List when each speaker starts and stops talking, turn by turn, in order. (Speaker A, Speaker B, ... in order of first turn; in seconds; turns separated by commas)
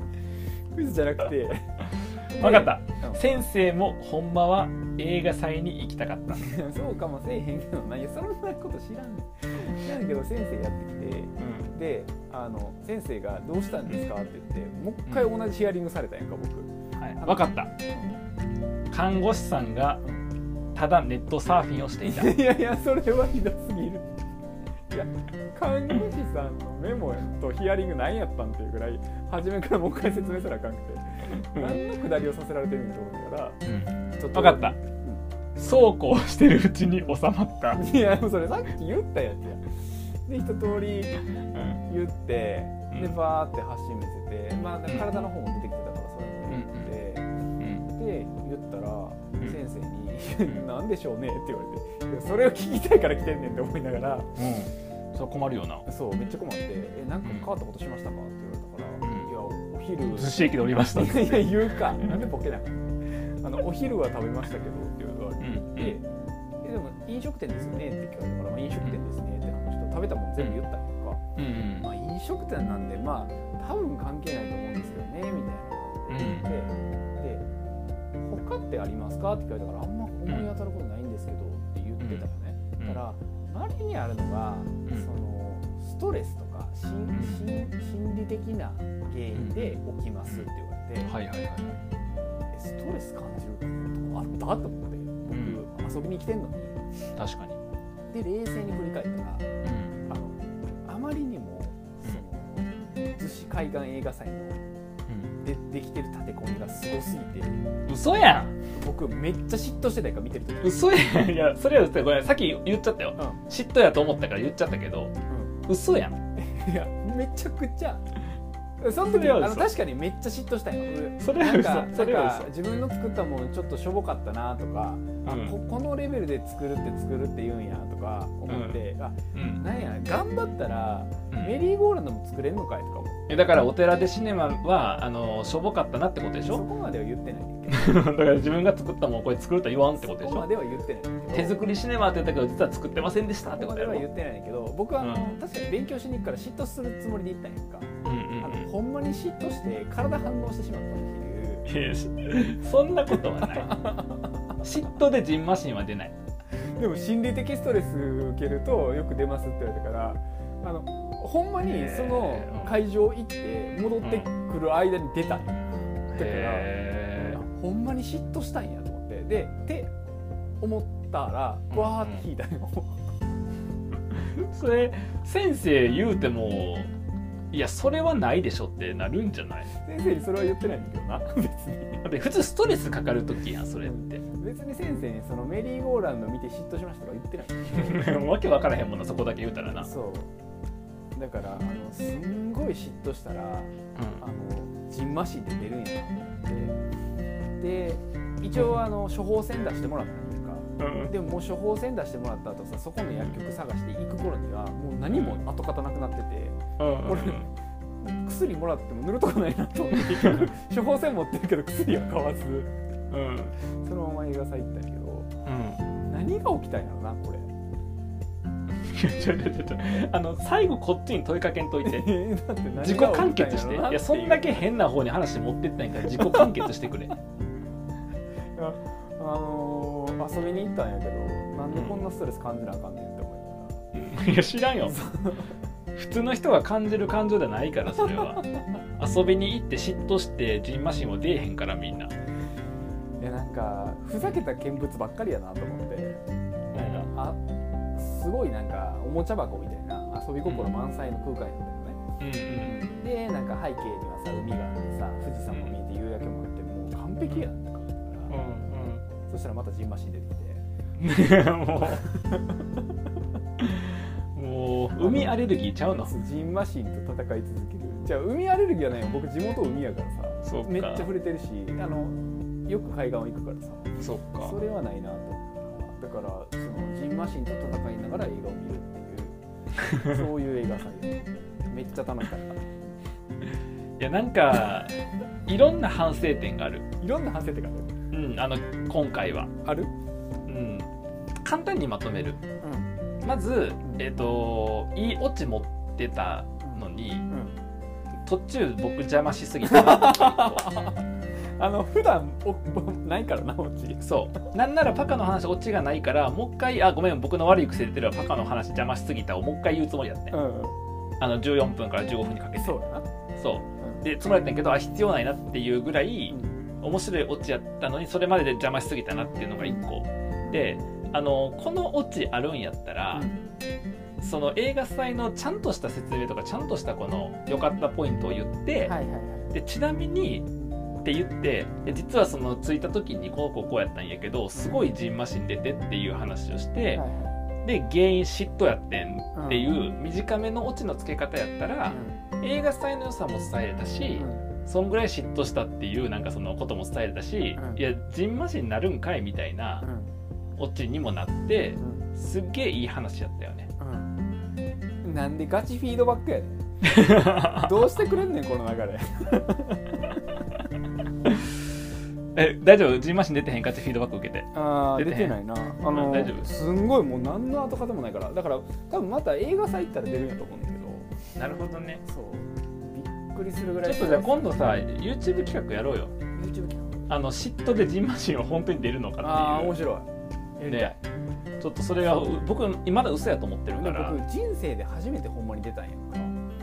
Speaker A: 0.7-3.2, Speaker B: 2.3-6.5, Speaker A: 6.3-18.2, Speaker B: 11.4-11.7, Speaker B: 17.0-17.7, Speaker B: 18.9-20.0, Speaker B: 20.7-22.4, Speaker A: 22.0-24.1, Speaker A: 24.9-33.6, Speaker B: 31.4-31.8, Speaker B: 33.6-34.8, Speaker A: 34.1-35.2, Speaker B: 35.6-37.8, Speaker A: 37.8-47.3, Speaker B: 44.9-45.3, Speaker B: 46.5-46.9, Speaker B: 47.6-47.9, Speaker A: 47.9-54.4, Speaker B: 54.4-55.9, Speaker A: 55.9-66.1, Speaker B: 59.0-59.3, Speaker B: 60.1-62.2, Speaker B: 65.4-66.0, Speaker A: 66.6-71.2, Speaker B: 71.4-71.9, Speaker A: 71.8-77.5, Speaker B: 76.1-76.5, Speaker A: 78.2-91.1, Speaker B: 82.0-82.3, Speaker B: 87.1-87.4, Speaker B: 89.3-90.5, Speaker B: 91.0-91.8, Speaker A: 92.5-96.8, Speaker B: 95.3-95.6, Speaker B: 97.2-97.6, Speaker A: 98.1-99.5, Speaker B: 99.6-100.0, Speaker A: 100.1-104.6, Speaker A: 105.4-107.6, Speaker B: 107.9-108.5, Speaker A: 108.7-110.9, Speaker B: 110.6-115.1, Speaker A: 115.3-115.5, Speaker B: 115.7-116.2, Speaker A: 116.4-118.0, Speaker A: 118.8-133.5, Speaker B: 119.0-119.7, Speaker B: 121.2-122.5, Speaker B: 125.2-125.5, Speaker B: 128.5-129.7, Speaker B: 131.3-131.6, Speaker B: 133.3-136.6, Speaker A: 136.4-138.1, Speaker B: 137.7-140.5, Speaker A: 140.0-141.6, Speaker B: 141.3-144.1, Speaker A: 143.5-151.7, Speaker B: 145.0-145.3, Speaker B: 148.0-148.7, Speaker B: 151.7-153.9, Speaker A: 153.1-154.4, Speaker B: 154.6-156.2, Speaker A: 156.8-169.9, Speaker B: 161.6-162.8, Speaker B: 164.0-164.3, Speaker B: 166.1-167.4, Speaker A: 170.6-173.0, Speaker B: 171.7-172.2, Speaker B: 174.1-176.9, Speaker B: 177.5-179.7, Speaker A: 179.7-182.1, Speaker B: 182.0-184.2, Speaker A: 183.8-188.1, Speaker B: 187.7-189.9, Speaker A: 189.7-190.3, Speaker A: 191.2-196.8, Speaker B: 194.0-194.2, Speaker A: 197.6-207.5, Speaker B: 200.8-201.1, Speaker B: 205.1-205.4, Speaker B: 206.8-207.5, Speaker A: 208.0-212.7, Speaker B: 209.9-210.5, Speaker B: 213.1-213.6, Speaker A: 213.6-215.3, Speaker B: 215.4-215.8, Speaker A: 216.0-217.5, Speaker B: 218.8-222.2, Speaker A: 221.8-224.7, Speaker B: 222.8-227.2, Speaker A: 228.6-233.8, Speaker B: 231.7-232.0, Speaker B: 233.9-235.0, Speaker A: 234.8-235.5, Speaker B: 236.0-238.4, Speaker B: 239.0-242.1, Speaker A: 243.2-246.2, Speaker B: 246.7-247.1, Speaker A: 246.7-252.0, Speaker B: 250.5-250.7, Speaker B: 252.2-252.8, Speaker A: 252.6-258.3, Speaker B: 255.5-255.8, Speaker B: 258.3-259.1, Speaker A: 259.2-260.6, Speaker B: 261.0-262.1, Speaker A: 261.8-262.6, Speaker B: 263.6-266.1, Speaker A: 265.0-282.7, Speaker B: 270.4-271.1, Speaker B: 274.0-274.6, Speaker B: 284.0-286.9, Speaker A: 287.0-287.9, Speaker B: 288.1-289.5, Speaker A: 289.6-289.9, Speaker B: 290.5-292.4, Speaker A: 292.6-292.9, Speaker B: 293.2-297.3, Speaker A: 296.6-297.6, Speaker B: 298.2-300.8, Speaker A: 299.6-301.1, Speaker A: 301.6-304.5, Speaker B: 304.0-310.4, Speaker A: 310.3-310.8, Speaker B: 311.2-312.8, Speaker A: 312.6-313.1, Speaker B: 313.4-323.3, Speaker A: 316.3-316.6, Speaker A: 323.1-323.5, Speaker B: 324.2-329.0, Speaker A: 328.8-329.5, Speaker B: 329.5-337.0, Speaker A: 334.6-334.9, Speaker A: 336.9-337.3, Speaker B: 337.6-349.9, Speaker A: 339.4-339.7, Speaker A: 341.9-342.2, Speaker A: 344.1-344.5, Speaker A: 347.6-347.8, Speaker A: 349.8-350.1, Speaker B: 350.6-353.7, Speaker A: 351.8-352.1, Speaker A: 353.8-354.1, Speaker A: 355.0-360.1, Speaker B: 356.8-357.9, Speaker B: 362.4-366.5, Speaker A: 364.5-371.1, Speaker B: 371.4-372.0, Speaker A: 372.1-374.9, Speaker B: 373.8-376.1, Speaker A: 376.4-377.1, Speaker B: 377.1-379.8, Speaker A: 379.2-381.0, Speaker B: 380.7-381.0, Speaker B: 381.6-384.2, Speaker A: 382.0-382.5, Speaker A: 383.7-386.4